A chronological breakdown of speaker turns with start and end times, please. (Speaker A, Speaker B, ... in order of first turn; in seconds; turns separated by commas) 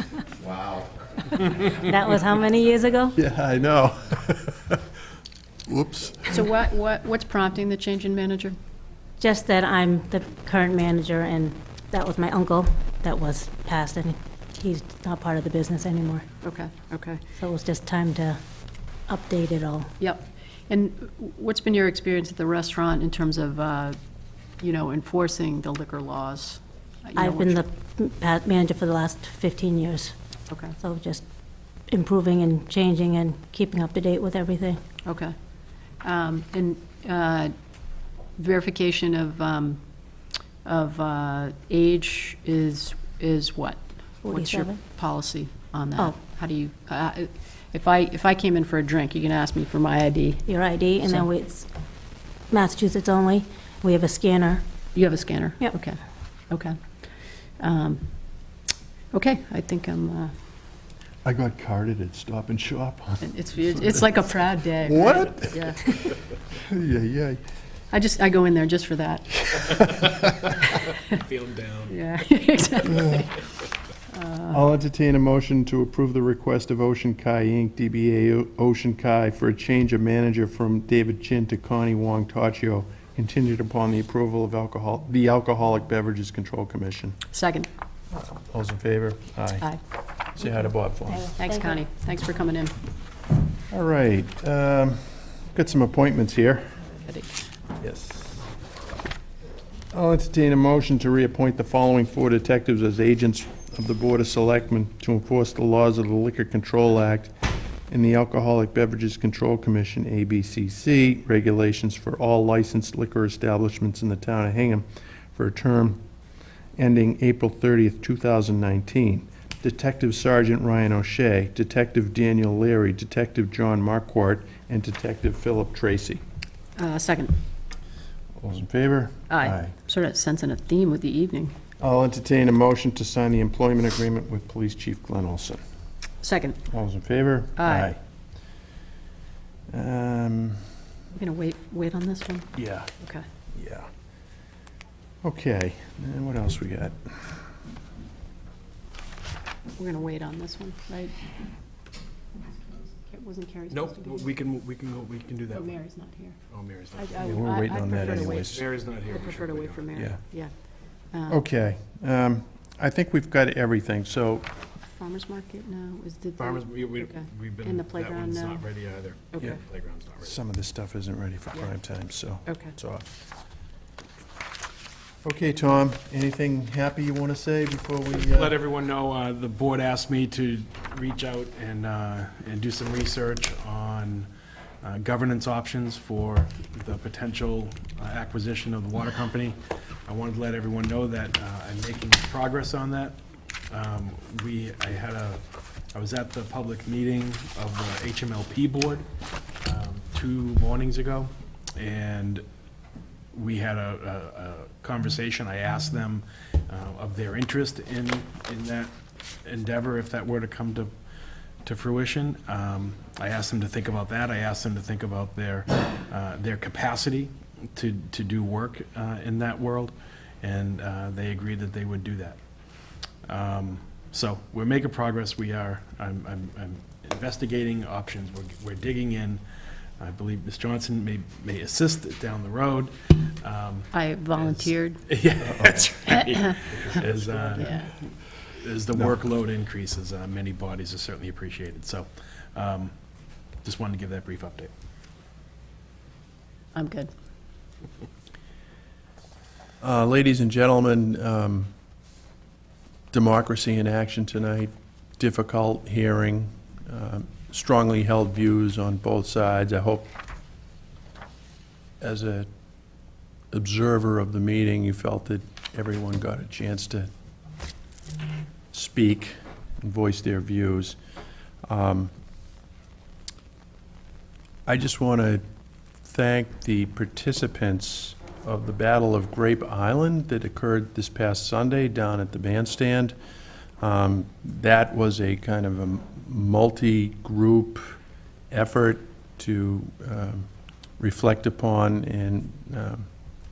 Speaker A: 1.5-3.2, Speaker B: 3.2-4.8, Speaker B: 5.7-6.5, Speaker C: 6.3-8.6, Speaker A: 9.2-16.2, Speaker C: 16.4-17.2, Speaker A: 17.4-18.4, Speaker A: 19.1-19.9, Speaker C: 20.0-24.0, Speaker C: 24.6-27.6, Speaker A: 27.2-30.1, Speaker C: 30.5-30.8, Speaker A: 30.8-31.2, Speaker A: 31.9-34.8, Speaker C: 35.1-35.3, Speaker C: 36.0-37.5, Speaker C: 38.4-39.8, Speaker C: 40.6-50.5, Speaker A: 44.2-44.8, Speaker A: 50.5-51.7, Speaker A: 52.5-54.6, Speaker C: 54.9-56.0, Speaker C: 56.5-56.8, Speaker C: 57.6-58.0, Speaker C: 59.1-60.3, Speaker B: 61.2-64.1, Speaker C: 63.2-66.1, Speaker B: 64.8-65.9, Speaker B: 66.5-67.4, Speaker C: 67.9-69.9, Speaker B: 69.5-70.5, Speaker C: 70.8-71.2, Speaker D: 71.1-72.0, Speaker C: 71.9-73.5, Speaker B: 72.9-73.2, Speaker C: 74.1-74.6, Speaker B: 74.5-87.2, Speaker C: 87.3-87.7, Speaker B: 88.1-89.8, Speaker B: 90.3-91.4, Speaker A: 91.3-91.8, Speaker C: 91.4-92.7, Speaker B: 93.7-96.8, Speaker C: 97.1-97.4, Speaker B: 97.8-98.5, Speaker B: 99.9-107.3, Speaker B: 107.9-116.0, Speaker B: 116.8-126.2, Speaker C: 126.8-127.4, Speaker B: 128.4-129.7, Speaker C: 129.3-131.6, Speaker B: 131.8-135.6, Speaker C: 136.2-136.6, Speaker B: 136.7-138.0, Speaker C: 137.6-137.9, Speaker B: 139.7-140.7, Speaker C: 141.2-143.3, Speaker B: 142.6-142.9, Speaker B: 143.5-143.9, Speaker B: 145.2-147.4, Speaker C: 149.8-151.2, Speaker C: 153.1-154.3, Speaker D: 153.7-155.9, Speaker C: 155.5-156.4, Speaker D: 156.5-160.1, Speaker C: 157.0-160.5, Speaker B: 157.2-158.7, Speaker C: 161.1-161.4, Speaker B: 161.3-164.5, Speaker C: 164.9-168.6, Speaker D: 166.4-170.4, Speaker B: 170.2-173.1, Speaker C: 172.5-172.7, Speaker B: 175.2-178.6, Speaker D: 178.1-184.3, Speaker D: 184.8-193.2, Speaker D: 193.7-195.4, Speaker D: 195.9-199.1, Speaker D: 199.6-202.4, Speaker D: 203.3-208.9, Speaker D: 209.4-210.9, Speaker D: 211.6-222.4, Speaker D: 223.2-229.4, Speaker D: 230.0-237.8, Speaker C: 233.9-235.1, Speaker B: 235.4-236.0, Speaker B: 236.7-237.8, Speaker C: 237.6-237.9, Speaker D: 238.6-242.9, Speaker D: 243.6-244.7, Speaker C: 246.7-247.1, Speaker B: 249.8-251.7, Speaker B: 253.1-260.1, Speaker B: 262.0-262.5, Speaker B: 263.5-267.1, Speaker B: 268.7-271.0, Speaker B: 271.7-272.1, Speaker B: 274.7-275.4, Speaker B: 276.0-283.1, Speaker B: 283.8-288.0, Speaker B: 288.5-293.1